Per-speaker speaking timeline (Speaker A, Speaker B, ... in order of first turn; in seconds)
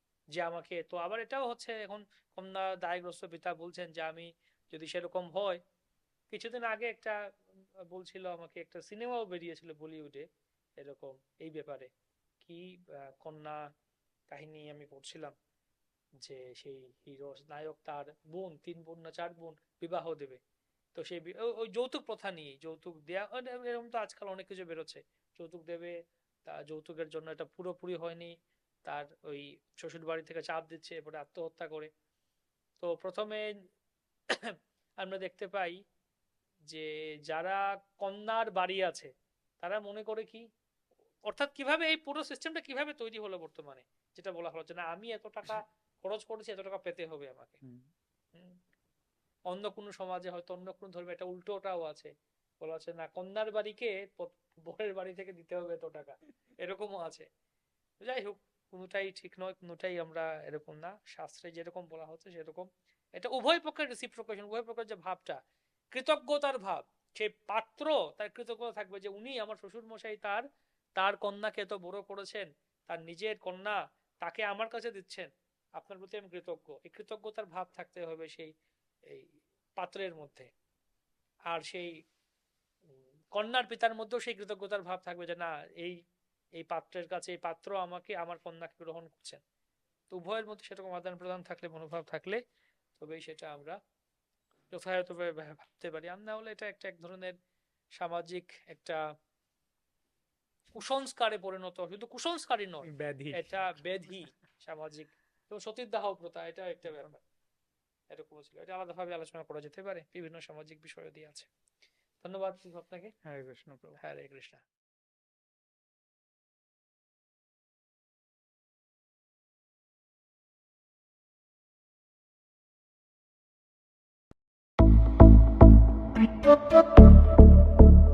Speaker A: 0.4-5.6, 6.3-7.2, 7.9-10.2, 10.8-11.9, 12.4-13.6, 14.3-15.3, 16.2-20.4, 20.9-25.9, 26.4-28.3, 28.8-31.9, 32.8-33.5, 34.3-35.8, 36.7-40.4, 41.2-47.6, 48.3-48.6, 49.5-57.3, 58.0-65.4, 65.9-70.4, 71.0-78.5, 79.1-80.5, 81.5-81.9, 83.3-86.0, 86.6-89.4, 90.1-92.4, 93.0-93.8, 94.7-97.3, 98.0-99.0, 100.7-107.2, 108.1-111.5, 112.2-113.1, 114.0-114.6
Speaker B: 47.6-47.9, 102.9-103.7, 106.9-107.1, 113.2-114.0